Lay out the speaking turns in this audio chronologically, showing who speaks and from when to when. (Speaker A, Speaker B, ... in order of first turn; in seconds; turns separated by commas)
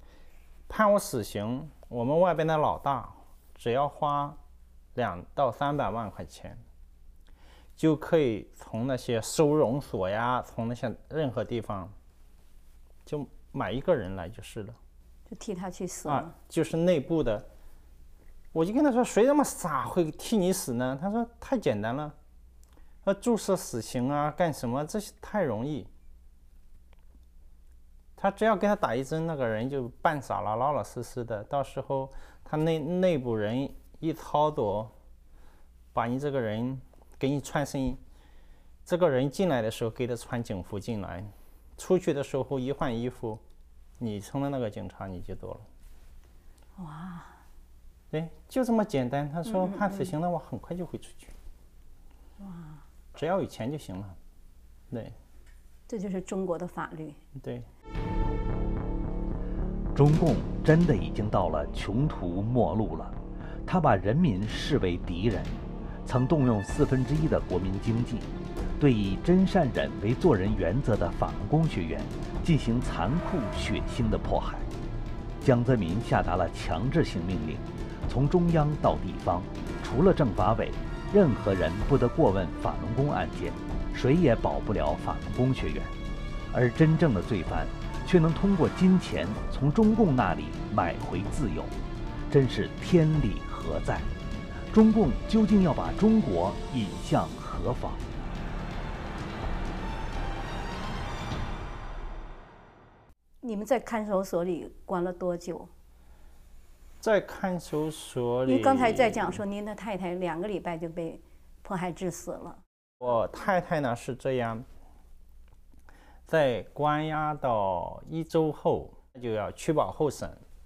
Speaker A: 0.7-4.4, Speaker A: 4.9-6.6, Speaker A: 7.8-11.9, Speaker A: 13.1-14.8, Speaker B: 15.3-16.3, Speaker A: 16.1-17.5, Speaker A: 18.5-22.1, Speaker A: 23.0-25.9, Speaker A: 28.2-34.9, Speaker A: 35.9-38.0, Speaker A: 38.9-43.4, Speaker A: 44.0-45.6, Speaker B: 46.8-47.4, Speaker A: 48.1-51.3, Speaker B: 49.5-50.1, Speaker B: 52.4-52.8, Speaker A: 53.1-54.2, Speaker A: 54.9-55.1, Speaker B: 55.9-57.2, Speaker A: 57.4-57.7, Speaker C: 59.9-74.7, Speaker C: 75.4-85.9, Speaker C: 86.5-91.7, Speaker C: 92.3-94.1, Speaker C: 94.7-98.0, Speaker B: 103.4-105.7, Speaker A: 107.0-109.4, Speaker B: 108.4-112.6, Speaker A: 113.0-114.6, Speaker A: 116.3-120.4